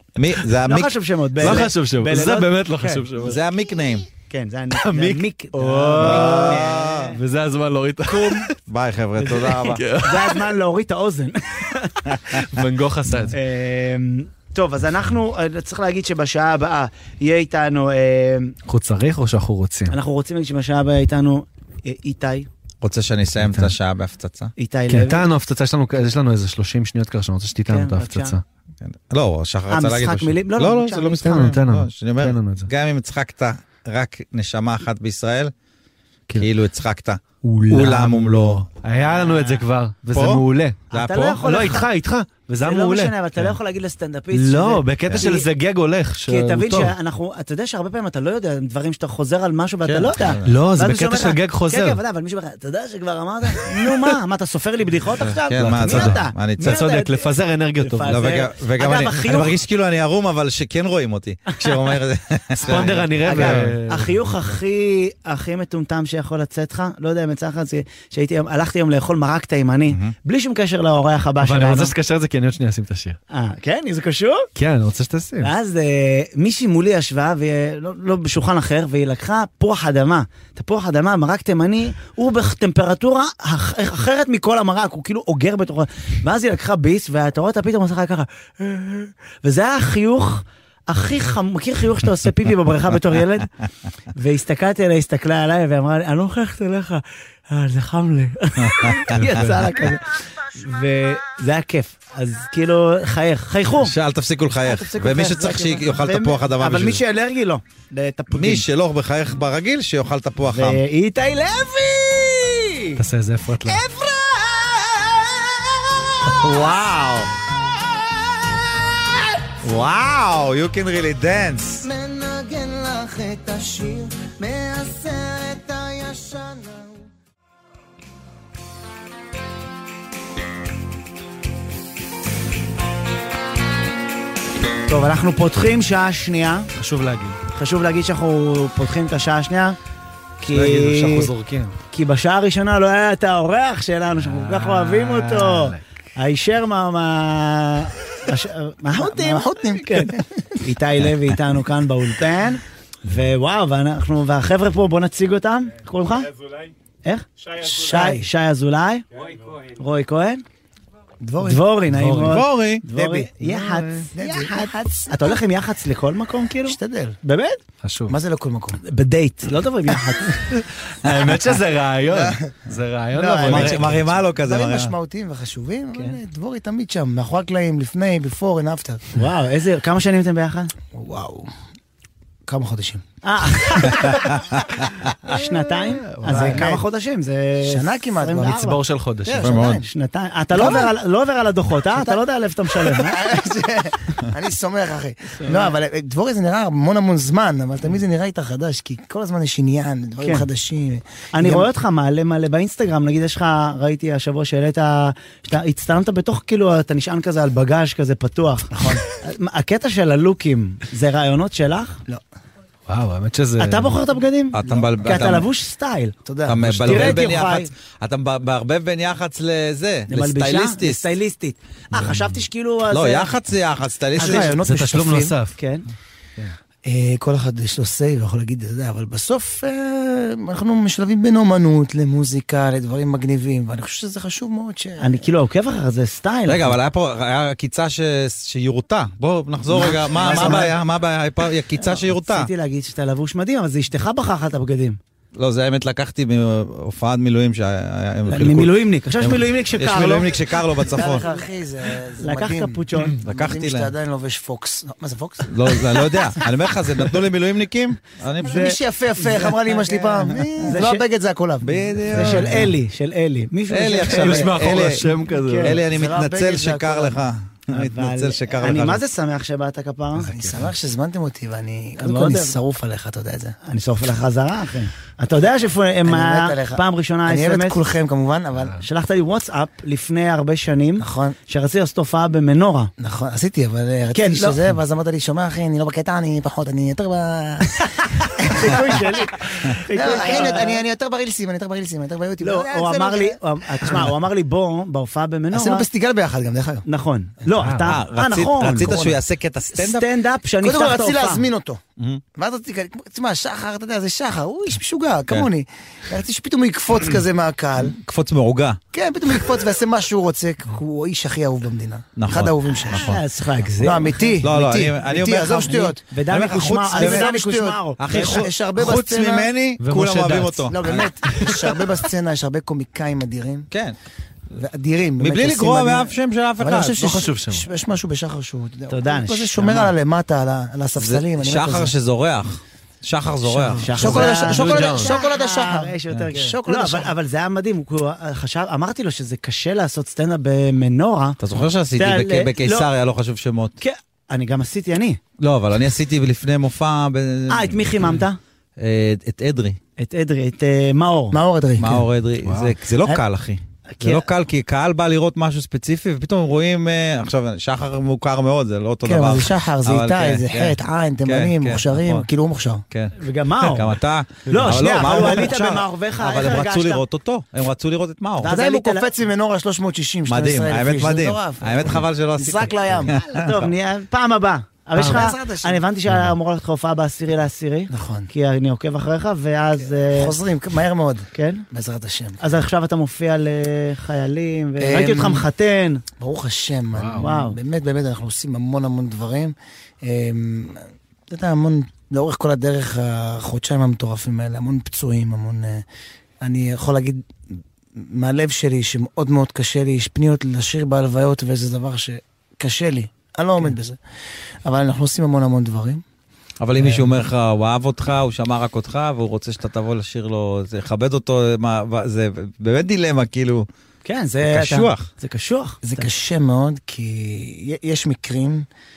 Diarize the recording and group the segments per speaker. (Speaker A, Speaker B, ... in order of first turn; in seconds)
Speaker A: 0.2-1.7, 3.2-4.1, 6.0-7.2, 8.7-9.8, 22.8-24.5, 28.8-35.5, 36.4-38.7, 40.1-41.5, 49.8-50.6, 55.3-56.8, 58.0-63.8, 98.6-99.3, 103.8-107.0, 108.3-110.8, 116.3-117.3, 119.6-121.8, 162.2-162.8, 173.4-174.9, 189.4-189.8, 214.5-215.5, 216.4-221.1, 222.9-224.6, 236.5-242.5, 245.3-251.2, 253.2-253.9, 255.5-258.8, 260.4-260.7, 261.6-262.7, 263.7-269.0, 297.9-300.1, 307.8-308.8, 312.2-313.2, 314.4-317.3, 318.0-321.1, 323.7-324.0, 325.2-327.2, 331.0-334.6, 341.4-343.8, 345.4-348.2, 348.8-349.8, 351.8-362.3, 362.9-368.6, 370.3-373.7, 406.6-413.7, 414.4-415.1
Speaker B: 0.7-3.0, 4.3-7.2, 8.1-8.5, 9.2-12.4, 13.3-18.6, 19.9-22.5, 24.6-25.3, 27.7-28.4, 29.7-31.6, 40.9-41.9, 42.6-45.5, 46.3-59.5, 62.6-71.9, 73.3-74.5, 75.4-93.5, 94.2-103.9, 104.6-108.7, 110.5-113.0, 113.7-116.6, 134.9-136.7, 137.5-139.8, 140.4-141.3, 141.9-156.3, 157.0-160.4, 161.4-167.6, 168.8-170.5, 179.2-180.7, 183.2-184.4, 185.2-188.8, 189.8-193.2, 195.4-195.7, 200.2-200.5, 201.3-212.0, 213.6-216.2, 216.8-217.7, 220.1-223.3, 225.6-225.9, 235.0-236.8, 239.7-240.7, 241.8-245.0, 248.3-250.4, 250.9-251.4, 252.2-253.2, 258.4-259.8, 260.6-261.0, 262.1-264.5, 265.3-265.8, 267.7-270.3, 272.0-272.6, 273.6-277.8, 278.8-282.9, 284.1-284.6, 288.5-290.8, 292.4-295.9, 296.9-299.1, 299.7-301.4, 312.9-314.4, 315.7-318.5, 328.9-329.9, 333.8-341.4, 342.0-342.9, 343.8-345.2, 347.5-348.4, 350.0-351.4, 353.9-354.2, 363.2-367.0, 368.4-369.1, 373.1-380.3, 381.4-381.6, 382.4-386.0, 387.2-387.6, 414.1-416.1
Speaker C: 1.4-3.4, 4.8-8.6, 9.4-10.4, 12.4-13.4, 18.7-19.9, 23.4-23.7, 24.9-28.4, 31.2-32.7, 37.4-40.8, 41.4-43.6, 44.3-47.0, 50.4-52.0, 55.2-58.3, 62.7-64.4, 71.4-73.2, 74.6-75.5, 113.0-113.8, 136.8-137.4, 140.5-141.8, 144.2-145.8, 161.9-162.4, 163.4-164.1, 167.8-168.2, 170.5-174.2, 186.1-186.6, 188.5-189.6, 212.9-214.0, 224.2-225.6, 264.2-265.8, 270.2-270.7, 297.6-297.9, 319.8-320.7, 321.4-321.8, 327.0-327.7, 334.5-335.2, 352.4-352.8, 375.0-375.2, 386.9-387.3
Speaker D: 121.8-127.1, 149.0-150.6, 157.6-158.3, 161.2-161.6, 162.9-163.3, 164.1-165.4, 166.7-167.2, 168.1-168.8, 172.1-172.5, 173.2-179.1, 180.9-181.5, 182.5-183.0, 183.7-184.2, 186.3-186.8, 187.6-188.7, 189.3-189.9, 190.6-190.9, 192.7-201.7, 208.7-209.0, 216.3-217.2, 224.2-225.3, 226.8-235.2, 239.8-240.7, 250.9-255.5, 258.4-262.4, 265.8-267.2, 270.3-273.6, 276.1-278.8, 281.0-281.4, 283.0-294.1, 295.5-296.9, 298.7-299.1, 300.6-301.8, 302.4-308.0, 308.9-313.1, 313.8-316.0, 316.9-319.5, 320.7-323.7, 324.6-331.9, 333.5-337.1, 351.3-352.1, 359.1-362.8, 368.4-373.2, 375.0-375.8, 377.9-378.3, 379.9-382.4, 384.8-385.5, 386.2-395.8, 396.4-397.3, 398.0-404.0, 404.6-406.0, 415.8-418.7